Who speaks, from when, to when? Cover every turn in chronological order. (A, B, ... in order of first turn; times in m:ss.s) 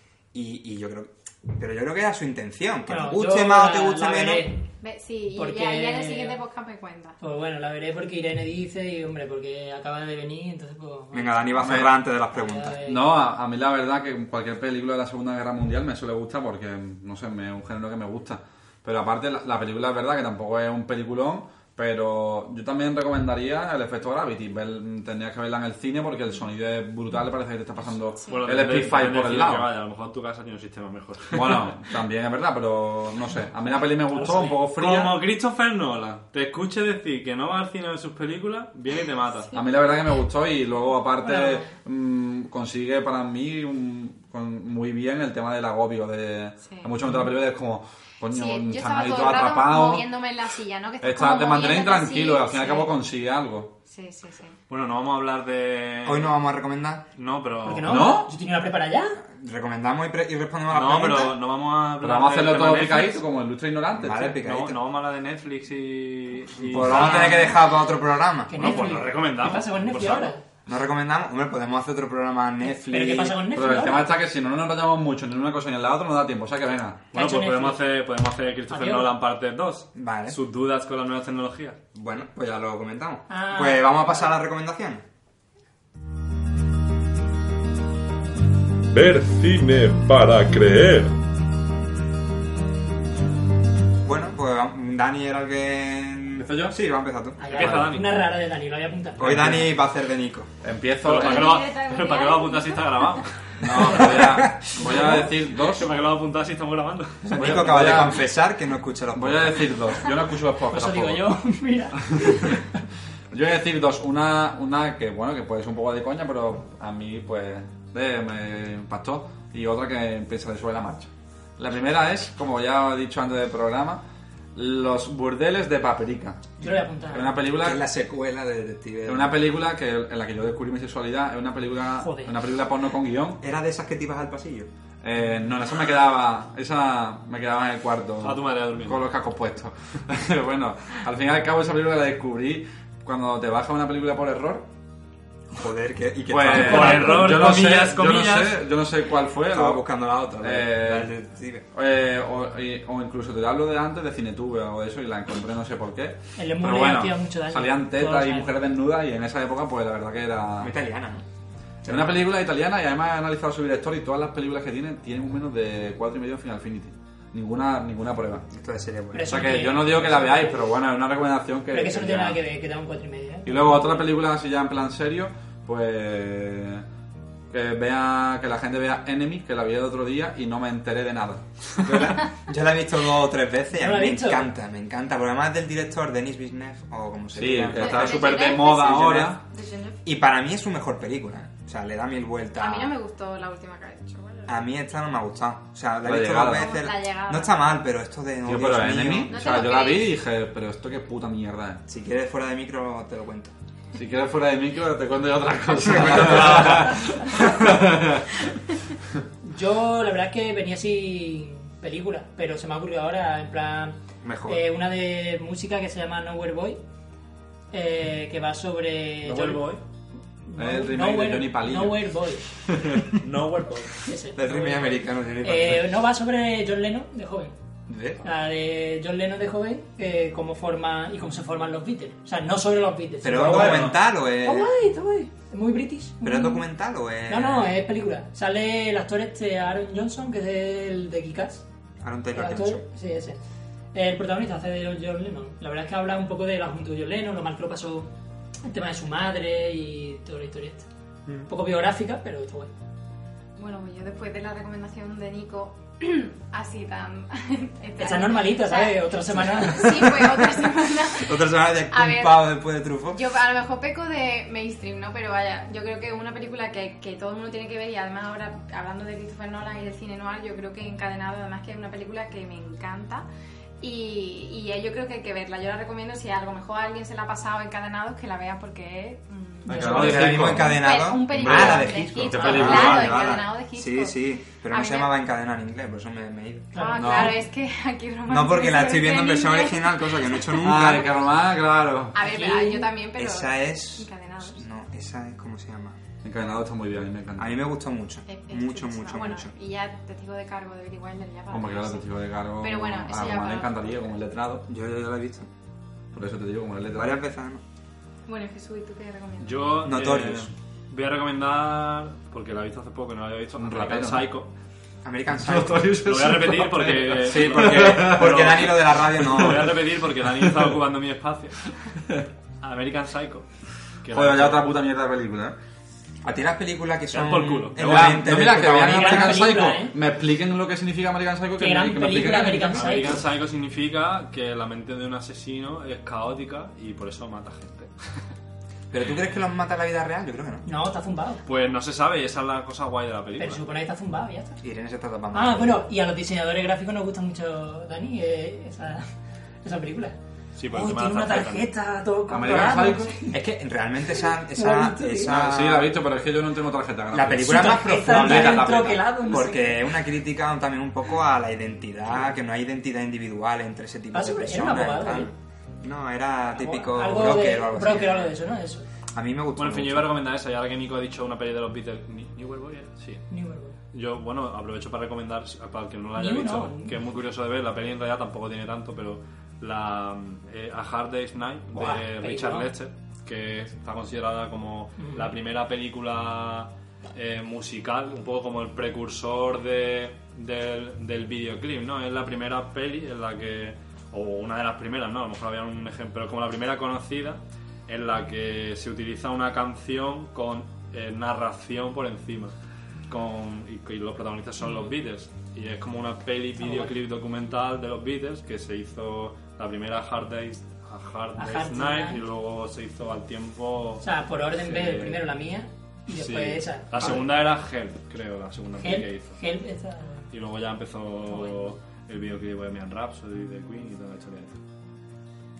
0:00.3-0:04.5 A
0:02.9-0:04.6 B
0:04.8-0:07.2 C
0:05.3-0:06.4 B
0:07.2-0:13.1 B
0:11.1-0:12.8 A
0:11.6-0:11.9 D
0:12.8-0:29.7 D
0:28.3-0:31.7 E
0:31.3-0:35.2 D
0:34.6-0:39.5 E
0:39.5-0:50.0 D
0:41.2-0:41.7 B
0:46.6-0:46.9 C
0:48.3-0:52.9 C
0:51.0-0:53.7 D
0:53.9-0:54.6 C
0:54.7-0:56.4 E
0:56.0-0:57.0 A
0:57.1-0:58.0 E
0:57.6-0:59.2 B
0:57.8-0:58.3 D
0:59.3-1:01.4 A
1:00.7-1:03.2 E
1:02.0-1:04.4 D
1:03.9-1:04.8 A
1:04.4-1:07.5 E
1:06.6-1:08.9 A
1:06.7-1:07.6 D
1:08.5-1:10.4 B
1:08.5-1:10.3 E
1:10.7-1:13.4 A
1:12.6-1:14.1 B
1:13.5-1:17.0 D
1:17.1-1:17.8 B
1:17.1-1:21.8 E
1:18.7-1:19.1 B
1:20.0-1:20.4 A
1:21.9-1:25.0 A
1:23.3-1:24.3 B
1:28.9-1:31.1 E
1:34.0-1:37.7 A
1:36.3-1:36.8 D
1:37.4-1:39.5 B
1:37.5-1:38.2 E
1:37.6-1:37.8 D
1:39.2-1:40.5 A
1:39.2-1:39.7 D
1:40.6-1:41.6 D
1:41.0-1:44.3 E
1:41.1-1:43.2 C
1:43.6-1:45.9 D
1:43.8-1:44.6 A
1:44.8-1:45.2 B
1:45.5-1:47.6 E
1:47.2-1:49.8 A
1:47.3-1:48.3 D
1:49.1-1:51.3 D
1:50.7-1:52.7 B
1:52.0-1:52.6 D
1:53.3-2:04.0 D
2:04.5-2:06.5 D
2:06.6-2:07.3 B
2:07.1-2:07.8 D
2:07.5-2:09.3 A
2:09.0-2:13.4 D
2:12.0-2:12.3 B
2:13.4-2:14.7 A
2:15.0-2:24.7 D
2:18.2-2:19.0 E
2:25.5-2:27.3 A
2:26.3-2:29.8 D
2:26.5-2:28.6 E
2:29.5-2:31.6 A
2:30.4-2:31.1 D
2:31.7-2:40.7 D
2:36.4-2:38.5 B
2:40.6-2:41.2 A
2:41.8-2:42.1 A
2:41.8-2:48.5 D
2:48.5-2:49.3 A
2:49.1-2:50.6 B
2:49.2-2:52.4 D
2:51.7-2:53.8 B
2:53.4-2:56.8 D
2:57.5-3:02.1 D
3:01.8-3:09.3 A
3:03.7-3:04.5 B
3:07.3-3:09.4 D
3:07.8-3:10.0 C
3:10.0-3:12.9 A
3:12.6-3:14.7 C
3:14.5-3:19.4 A
3:16.0-3:16.8 D
3:16.5-3:17.6 C
3:18.4-3:21.8 D
3:19.3-3:20.1 C
3:21.9-3:23.5 A
3:23.9-3:28.4 D
3:25.8-3:27.6 A
3:29.4-3:36.8 B
3:34.2-3:34.6 A
3:37.7-3:39.7 B
3:39.2-3:39.8 E
3:40.4-3:42.4 B
3:40.6-3:42.0 D
3:43.1-3:44.0 E
3:44.0-3:47.5 B
3:44.3-3:45.9 A
3:47.9-3:48.2 A
3:48.2-3:56.6 B
3:53.2-3:54.7 A
3:53.4-3:53.9 E
3:56.2-3:57.7 A
3:57.3-4:01.6 B
4:02.0-4:02.8 A
4:02.3-4:03.4 B
4:03.9-4:08.1 B
4:08.6-4:10.9 B
4:11.5-4:12.7 B
4:13.6-4:33.2 C
4:18.0-4:20.4 B
4:21.1-4:23.2 A
4:33.8-4:45.1 C
4:39.6-4:40.3 B
4:39.7-4:43.4 D
4:39.8-4:46.7 A
4:46.7-4:47.4 B
4:46.7-4:50.8 C
4:47.0-4:47.4 D
4:48.3-4:51.2 A
4:50.6-4:52.2 D
4:52.1-4:54.6 C
4:52.2-4:52.9 B
4:53.2-4:56.0 A
4:56.2-4:57.6 D
4:57.4-4:59.5 A
4:58.2-5:02.1 C
5:01.5-5:04.6 D
5:02.6-5:03.9 C
5:04.7-5:05.5 A
5:06.1-5:07.2 D
5:06.9-5:07.6 A
5:08.3-5:09.8 C
5:09.4-5:14.5 E
5:09.8-5:10.5 A
5:13.6-5:14.3 D
5:15.0-5:15.9 A
5:15.4-5:18.6 D
5:16.0-5:22.0 E
5:17.2-5:19.8 A
5:19.2-5:19.7 D
5:20.4-5:20.7 D
5:22.6-5:23.4 E
5:24.0-5:24.6 E
5:24.1-5:25.6 D
5:26.2-5:29.6 A
5:27.1-5:28.3 E
5:27.8-5:33.0 D
5:28.8-5:30.0 B
5:31.6-5:33.2 B
5:32.7-5:37.9 E
5:38.9-5:40.6 A
5:40.6-5:41.4 B
5:41.4-5:43.6 E
5:43.4-5:44.6 B
5:44.6-5:45.8 A
5:45.3-5:49.1 B
5:49.6-5:50.2 B
5:50.5-5:51.7 E
5:50.7-5:53.4 B
5:52.3-5:53.2 D
5:53.3-5:56.0 A
5:54.5-5:55.4 B
5:55.2-5:59.0 D
5:57.1-6:08.4 A
5:57.4-5:59.9 B
6:04.1-6:05.3 B
6:06.5-6:08.8 B
6:09.1-6:10.1 A
6:09.6-6:13.2 E
6:13.3-6:13.8 B
6:13.9-6:42.5 E
6:16.2-6:17.0 B
6:21.7-6:22.7 B
6:25.0-6:25.3 B
6:43.1-6:54.0 E
6:46.6-6:46.9 B
6:51.4-6:52.2 B
6:54.0-6:57.2 B
6:54.6-6:55.2 E
6:56.2-6:59.4 E
6:58.8-7:00.2 B
7:00.3-7:04.6 E